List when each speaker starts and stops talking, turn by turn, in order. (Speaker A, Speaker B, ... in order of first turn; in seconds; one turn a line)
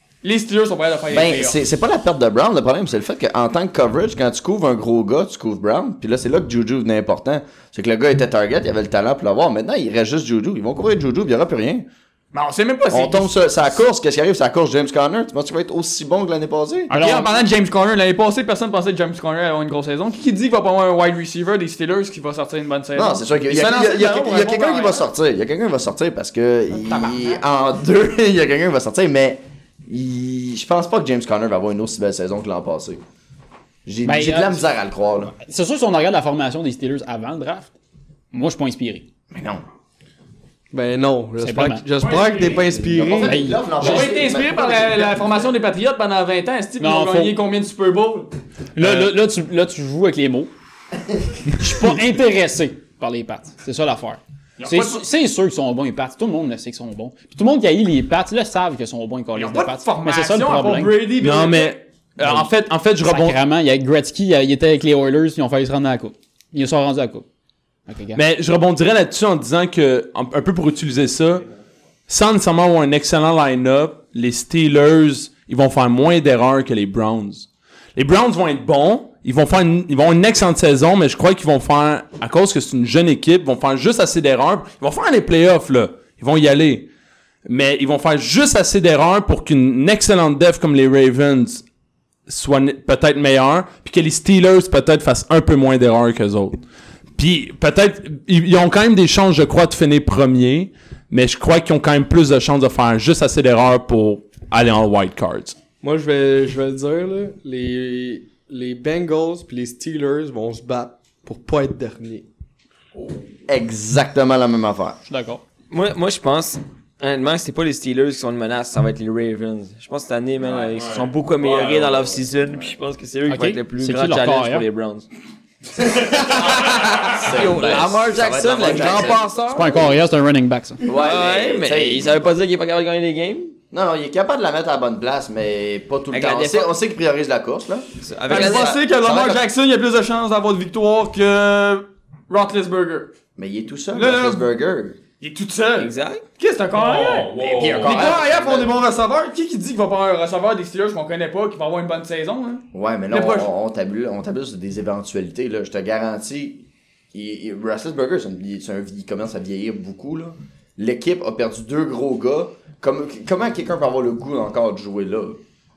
Speaker A: 0.2-1.6
Speaker B: 1.1-11.9
Speaker A: 12.3-13.8
Speaker B: 12.9-16.9
Speaker A: 16.9-25.1
Speaker C: 16.9-17.4
Speaker B: 22.9-33.0
Speaker A: 26.8-27.4
Speaker B: 33.9-35.4
Speaker C: 34.0-34.7
Speaker C: 35.4-37.7
Speaker C: 38.3-39.1
Speaker B: 39.3-39.6
Speaker D: 40.7-43.4
Speaker C: 41.4-41.9
Speaker A: 42.0-42.9
Speaker B: 42.8-45.4
Speaker C: 43.2-44.1
Speaker A: 43.8-48.3
Speaker C: 46.8-47.4
Speaker C: 48.8-50.5
Speaker C: 51.6-61.0
Speaker A: 54.6-55.0
Speaker A: 59.4-61.8
Speaker E: 61.2-63.4
Speaker C: 62.2-62.5
Speaker C: 63.0-67.3
Speaker C: 67.9-68.2
Speaker E: 68.1-71.5
Speaker E: 72.1-86.9
Speaker E: 87.5-91.6
Speaker E: 92.3-96.6
Speaker E: 97.2-105.6
Speaker D: 105.8-112.3
Speaker B: 113.5-115.0
Speaker C: 115.1-115.4
Speaker F: 115.7-125.1
Speaker E: 120.4-122.2
Speaker C: 123.3-124.7
Speaker F: 125.9-129.9
Speaker B: 126.2-129.8
Speaker C: 129.5-130.8
Speaker B: 130.8-132.2
Speaker F: 130.9-133.6
Speaker B: 133.7-139.4
Speaker F: 136.1-136.7
Speaker F: 138.0-138.8
Speaker A: 138.3-143.1
Speaker B: 143.4-145.0
Speaker A: 143.9-144.5
Speaker A: 145.2-153.5
Speaker F: 145.8-146.2
Speaker E: 146.7-148.1
Speaker B: 147.4-148.8
Speaker B: 152.7-165.4